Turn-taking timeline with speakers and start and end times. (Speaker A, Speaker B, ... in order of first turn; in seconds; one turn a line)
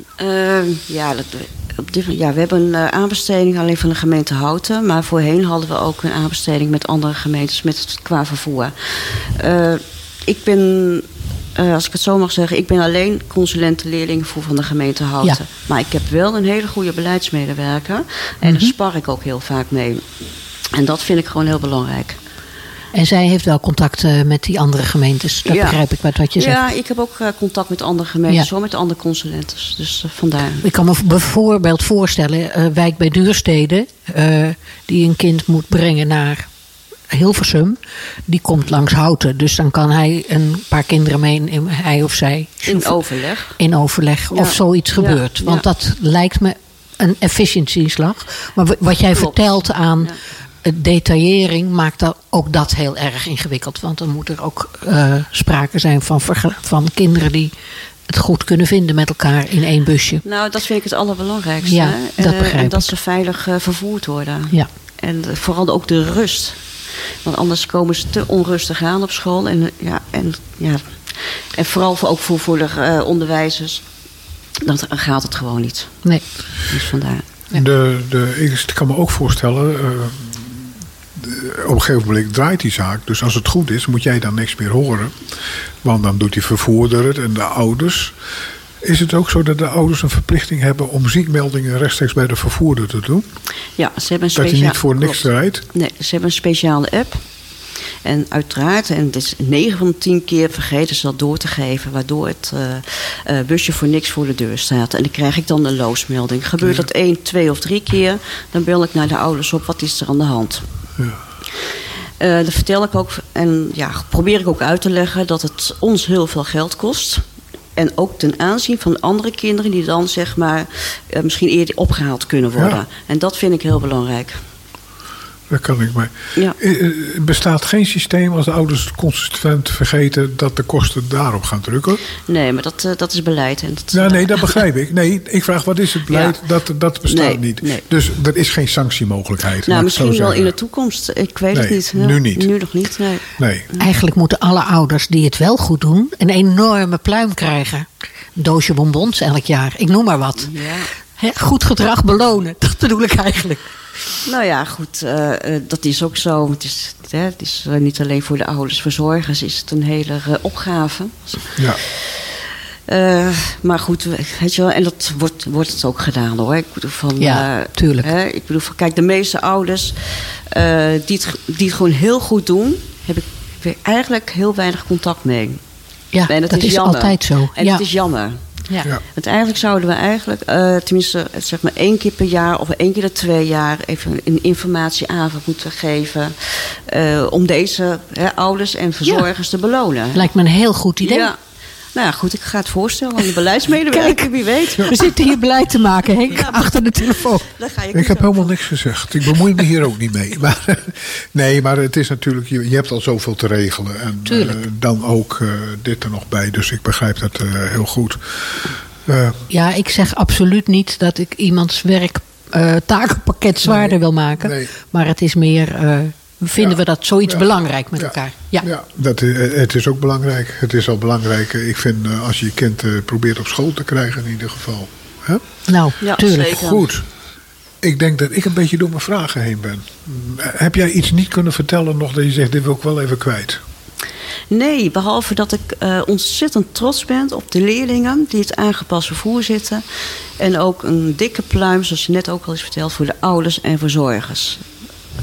Speaker A: 0.2-20.0
Speaker B: 18.4-18.7
Speaker A: 20.7-22.2
Speaker B: 22.9-26.6
Speaker A: 25.4-25.8
Speaker A: 26.3-30.6
Speaker B: 30.6-36.5
Speaker B: 37.1-43.0
Speaker A: 42.6-43.6
Speaker B: 43.6-50.1
Speaker A: 44.3-45.6
Speaker A: 49.1-50.2
Speaker B: 50.6-57.5
Speaker B: 58.1-60.2
Speaker A: 60.2-66.6
Speaker B: 61.6-62.9
Speaker A: 67.2-73.8
Speaker A: 74.6-76.0
Speaker A: 76.7-77.2
Speaker C: 77.5-85.1
Speaker C: 85.8-88.1
Speaker C: 88.8-93.2
Speaker A: 93.8-97.2
Speaker C: 94.3-95.6
Speaker A: 98.0-110.6
Speaker C: 106.6-106.9
Speaker A: 112.2-117.2
Speaker A: 117.7-124.4
Speaker C: 125.5-132.0
Speaker A: 132.3-134.6
Speaker C: 133.9-140.5
Speaker A: 136.1-136.4
Speaker A: 137.1-137.8
Speaker A: 139.6-143.9
Speaker C: 141.5-142.5
Speaker C: 143.3-143.7
Speaker B: 143.8-150.6
Speaker A: 150.4-150.9
Speaker B: 151.2-153.7
Speaker A: 154.2-162.2
Speaker C: 161.6-161.8
Speaker A: 162.9-175.6
Speaker B: 167.2-168.1
Speaker B: 176.1-177.8
Speaker A: 176.3-178.4
Speaker A: 179.1-190.2
Speaker B: 190.1-191.3
Speaker A: 191.0-191.4
Speaker A: 191.9-195.2
Speaker B: 193.9-197.5
Speaker A: 196.3-198.5
Speaker C: 197.9-209.4
Speaker B: 204.2-204.6
Speaker B: 209.5-218.7
Speaker C: 213.6-214.7
Speaker C: 216.6-225.4
Speaker B: 225.7-226.6
Speaker A: 226.0-226.8
Speaker C: 226.3-227.0
Speaker C: 227.8-233.6
Speaker A: 234.5-239.8
Speaker A: 240.4-244.6